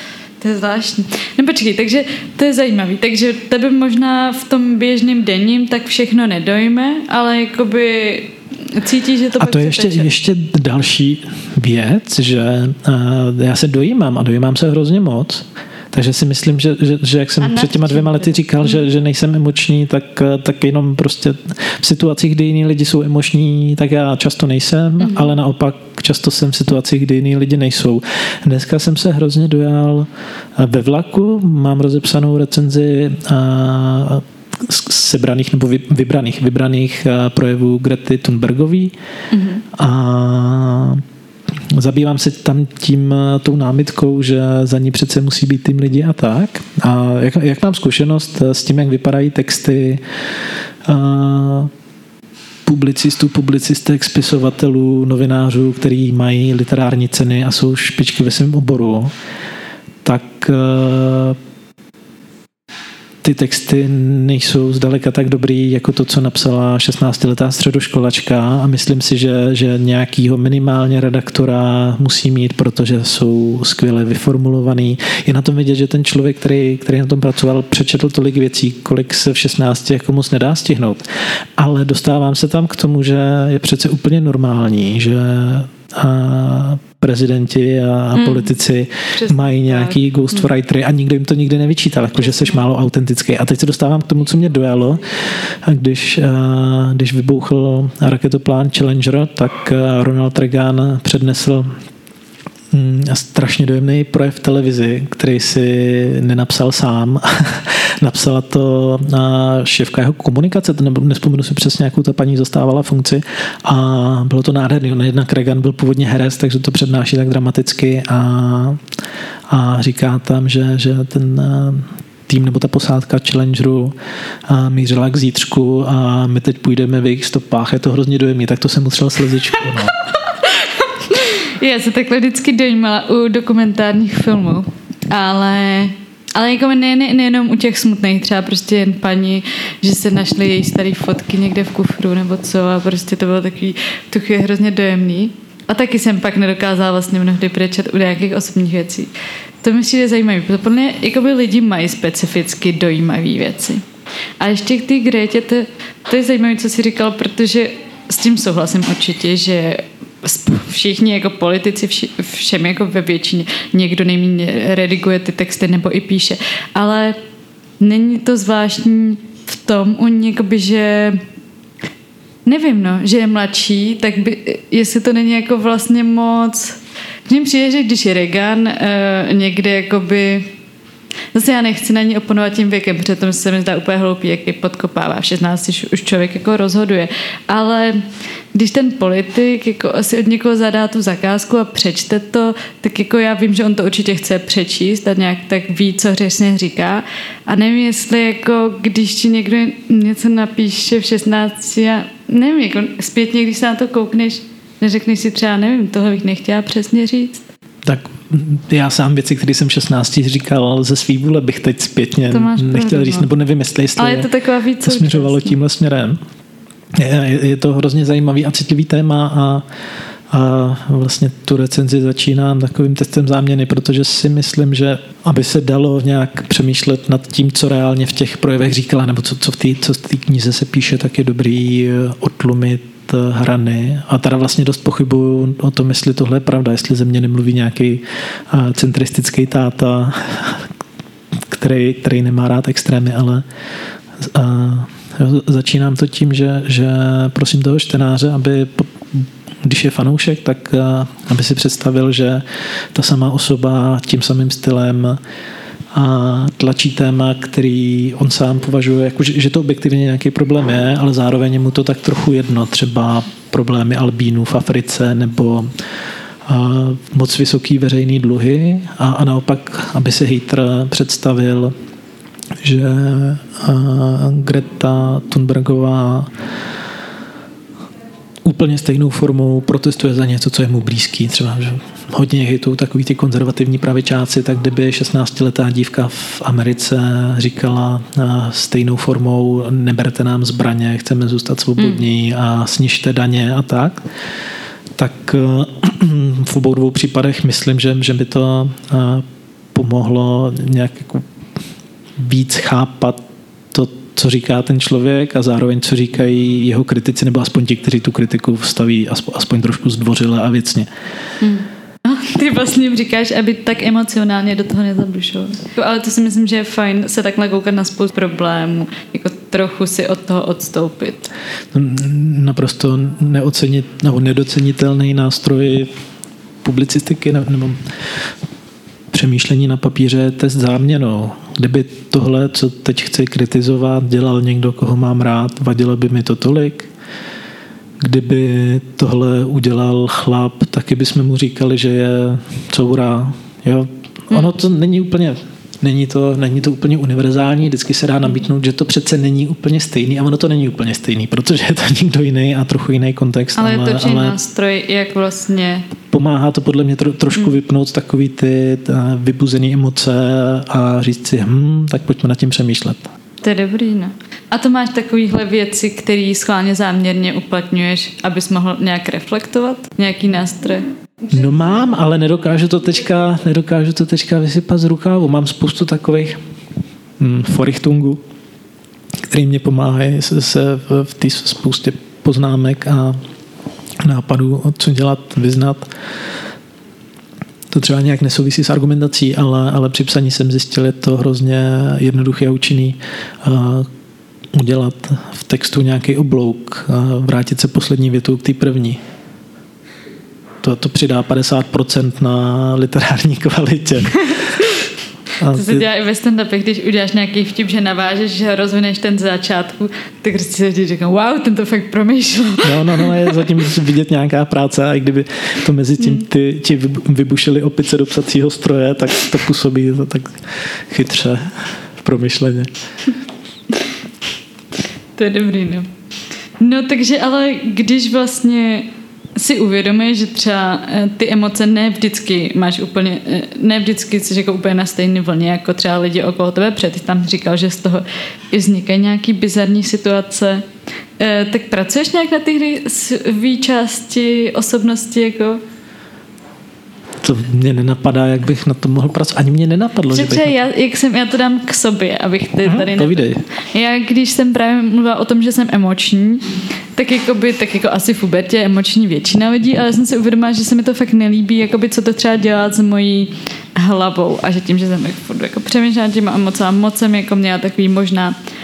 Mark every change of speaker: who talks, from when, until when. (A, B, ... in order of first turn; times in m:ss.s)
0:00.4-0:10.1 A
0:09.4-0:38.9 B
0:17.4-0:18.8 A
0:25.0-0:25.3 A
0:39.3-0:39.6 A
0:39.7-0:41.0 B
0:41.7-0:50.0 B
0:50.8-0:51.7 B
0:52.6-0:59.1 B
1:00.0-1:01.4 B
1:03.2-1:21.0 B
1:21.6-1:41.7 B
1:28.1-1:28.5 A
1:29.1-1:30.5 A
1:32.2-1:32.6 A
1:42.7-1:58.8 B
1:59.5-2:03.9 B
2:04.5-2:09.9 B
2:10.3-2:29.1 A
2:29.6-2:33.8 A
2:34.4-2:47.2 A
2:47.8-2:51.2 A
2:52.4-3:00.5 A
3:01.3-3:27.4 A
3:27.8-3:34.3 B
3:32.3-3:33.3 A
3:34.0-3:35.6 A
3:34.8-3:36.2 B
3:36.9-3:39.6 B
3:40.3-4:00.7 B
4:01.3-4:03.4 B
4:04.2-4:15.2 B
4:15.9-4:25.7 B
4:26.4-4:31.7 B
4:32.6-4:36.3 B
4:38.4-4:54.0 B
4:51.8-4:52.0 A
4:55.0-5:01.3 B
5:02.2-5:03.2 B
5:03.7-5:10.9 B
5:11.4-5:21.3 A
5:21.7-5:25.9 B
5:26.6-5:27.8 B
5:29.1-5:36.9 B
5:38.0-5:54.4 B
5:53.6-5:55.9 A
5:56.0-6:03.1 B
6:03.4-6:10.8 A
6:11.3-6:16.4 B
6:17.2-6:18.2 B
6:19.3-6:23.2 B
6:24.0-6:25.9 B
6:27.7-6:33.9 B
6:34.5-6:39.0 B
6:40.6-6:44.5 B
6:45.4-6:45.9 B
6:45.5-6:53.4 A
6:52.6-7:02.7 B
7:05.2-7:05.9 A
7:06.6-7:20.6 A
7:21.2-7:25.6 A
7:27.2-7:30.6 B
7:30.1-7:48.4 A
7:32.6-7:33.4 B